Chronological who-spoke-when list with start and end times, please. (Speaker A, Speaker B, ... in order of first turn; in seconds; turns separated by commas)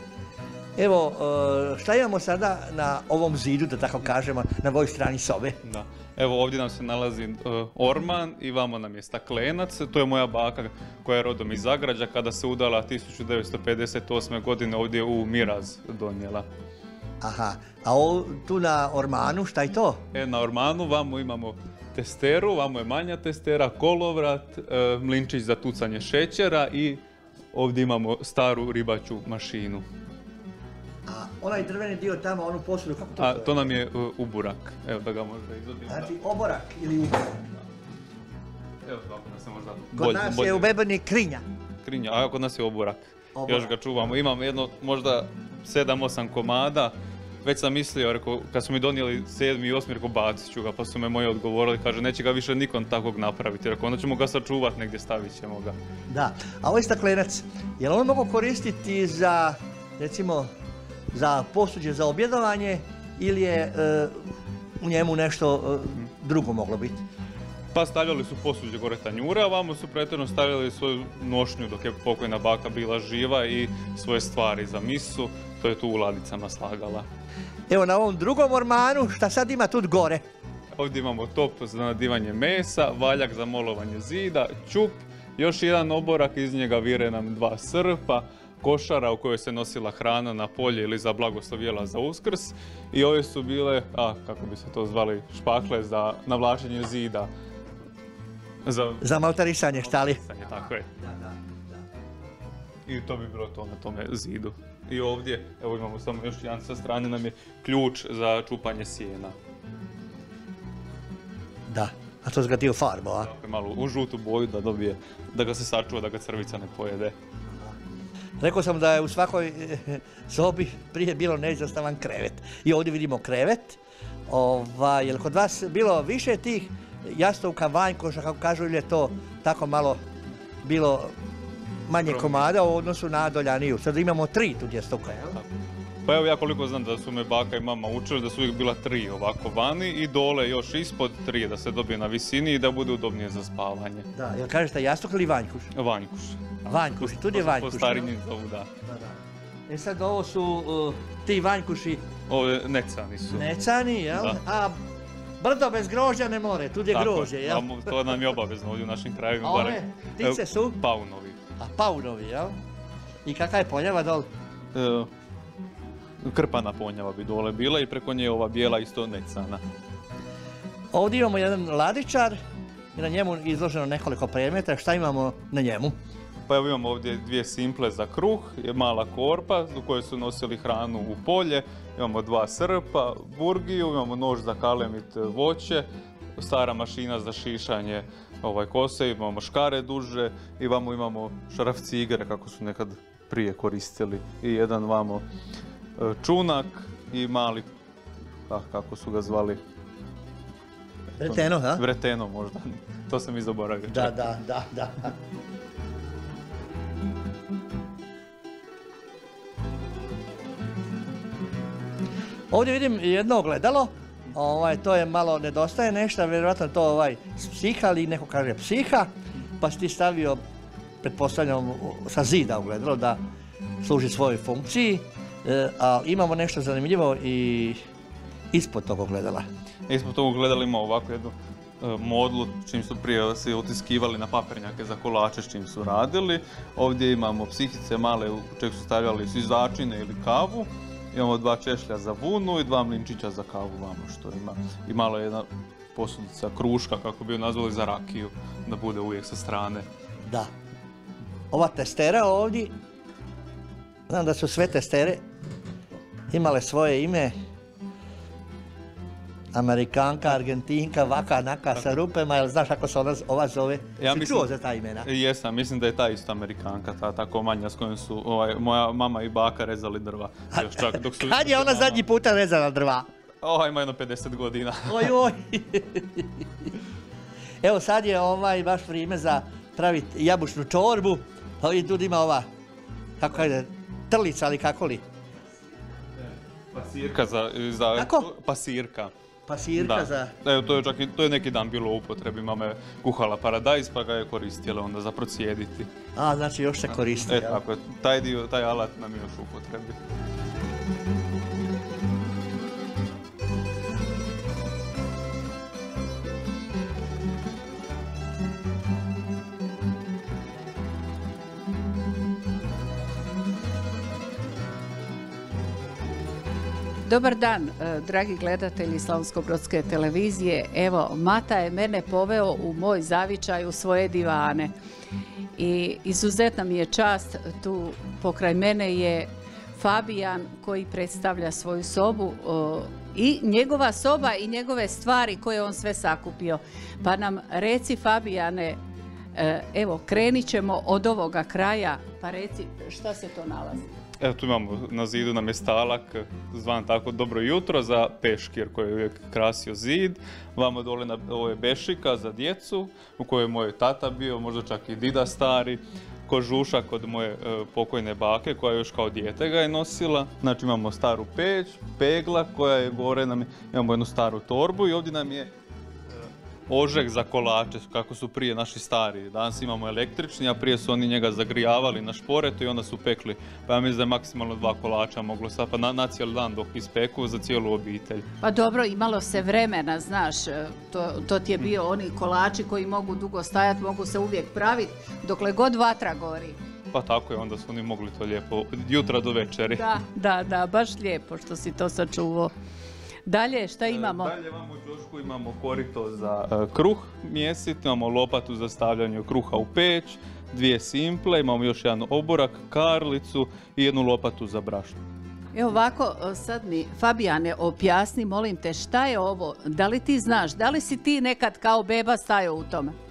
Speaker A: 0.8-5.6, Speaker B: 5.6-16.5, Speaker A: 17.2-20.0, Speaker B: 20.1-29.9, Speaker A: 31.1-33.7, Speaker B: 33.2-36.2, Speaker A: 35.9-37.4, Speaker B: 38.9-40.7, Speaker A: 40.0-41.4, Speaker B: 41.8-55.8, Speaker A: 43.4-43.7, Speaker A: 56.1-60.5, Speaker A: 61.1-64.2, Speaker A: 64.8-67.0, Speaker B: 67.7-77.1, Speaker A: 77.7-80.2, Speaker B: 80.8-97.3, Speaker B: 98.7-99.1, Speaker A: 99.0-101.8, Speaker B: 99.7-100.9, Speaker B: 102.9-109.3, Speaker A: 111.7-113.3, Speaker B: 113.2-117.2, Speaker A: 118.4-130.0, Speaker A: 130.6-131.2, Speaker A: 131.9-135.4, Speaker B: 132.0-132.5, Speaker B: 136.1-144.1, Speaker A: 144.1-145.7, Speaker B: 145.8-148.7, Speaker A: 146.7-148.1, Speaker A: 148.8-149.2, Speaker A: 149.7-152.1, Speaker B: 152.3-153.5, Speaker A: 153.3-154.8, Speaker B: 154.1-154.4, Speaker A: 155.4-158.2, Speaker B: 156.9-161.4, Speaker A: 159.4-160.8, Speaker A: 161.6-162.6, Speaker A: 163.2-164.3, Speaker B: 164.7-165.1, Speaker B: 166.2-169.6, Speaker A: 170.9-172.4, Speaker A: 172.9-176.0, Speaker B: 176.5-185.9, Speaker B: 186.4-195.2, Speaker B: 196.0-197.7, Speaker B: 198.5-199.6, Speaker B: 201.2-204.3, Speaker A: 201.2-201.8, Speaker A: 203.9-205.1, Speaker A: 212.5-220.4, Speaker A: 221.0-223.2, Speaker A: 223.8-227.8, Speaker A: 228.5-229.5, Speaker B: 229.9-249.9, Speaker A: 251.5-252.7, Speaker A: 254.1-255.2, Speaker A: 256.3-257.3, Speaker A: 259.5-265.1, Speaker B: 264.0-272.0, Speaker A: 270.5-273.1, Speaker B: 273.4-275.1, Speaker A: 274.9-276.4, Speaker A: 277.6-282.5, Speaker A: 283.2-285.0, Speaker B: 286.7-289.1, Speaker A: 287.9-288.3, Speaker A: 289.5-290.3, Speaker B: 289.8-295.9, Speaker A: 296.1-297.6, Speaker B: 297.3-300.0, Speaker C: 317.0-324.7, Speaker C: 325.6-338.8, Speaker C: 339.3-343.9, Speaker B: 344.2-365.5, Speaker B: 366.1-378.2, Speaker C: 378.4-386.6, Speaker B: 386.9-389.9, Speaker C: 389.7-392.5, Speaker C: 393.3-394.3, Speaker B: 393.9-405.0, Speaker C: 405.5-412.9